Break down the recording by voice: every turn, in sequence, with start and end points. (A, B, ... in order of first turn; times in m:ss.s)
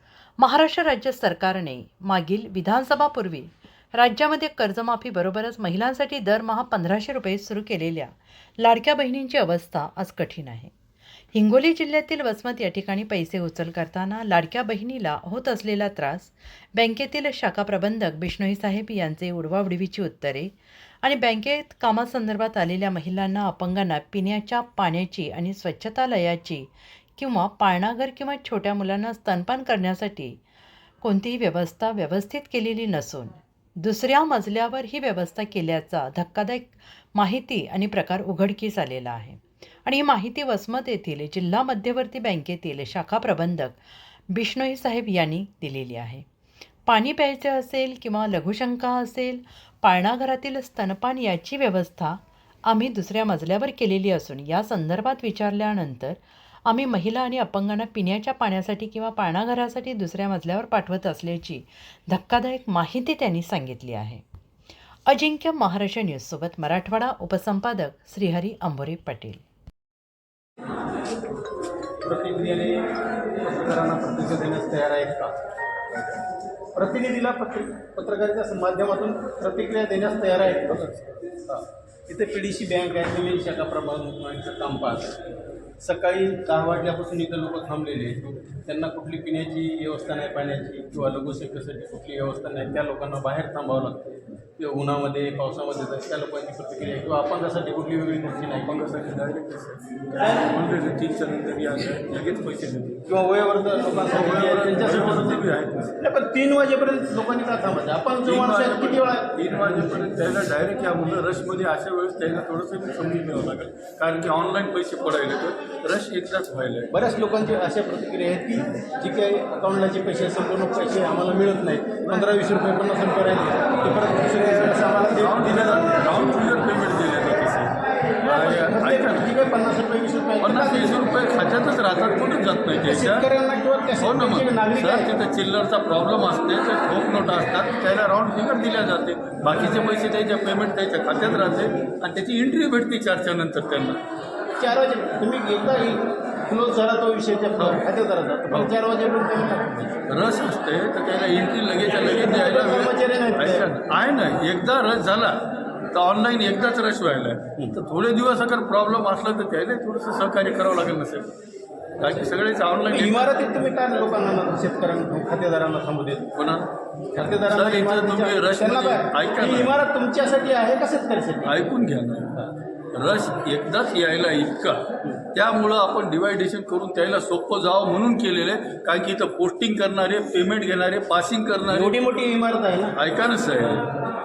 0:00.4-0:10.7 A
0:11.3-0:30.4 A
0:31.0-0:43.8 A
0:44.3-0:46.2 A
0:46.8-1:04.2 A
1:05.1-1:09.4 A
1:12.0-1:12.9 B
1:13.4-1:15.3 B
1:16.7-1:20.8 B
1:20.7-1:21.2 C
1:21.5-1:25.2 B
1:25.8-1:38.7 B
1:38.6-1:43.1 C
1:43.1-1:45.5 B
1:44.1-1:46.0 C
1:46.0-1:49.3 B
1:48.2-1:57.0 C
1:56.9-2:06.0 B
2:02.0-2:02.3 C
2:04.6-2:09.3 C
2:08.2-2:11.0 B
2:10.4-2:13.3 C
2:12.8-2:15.1 B
2:14.0-2:24.0 C
2:24.6-2:30.0 B
2:28.5-2:28.7 C
2:30.1-2:41.3 C
2:31.8-2:33.7 B
2:42.0-2:43.4 C
2:42.9-2:46.3 B
2:46.3-2:49.8 C
2:47.1-2:51.5 B
2:51.4-3:02.0 C
3:01.7-3:02.9 B
3:03.0-3:03.9 C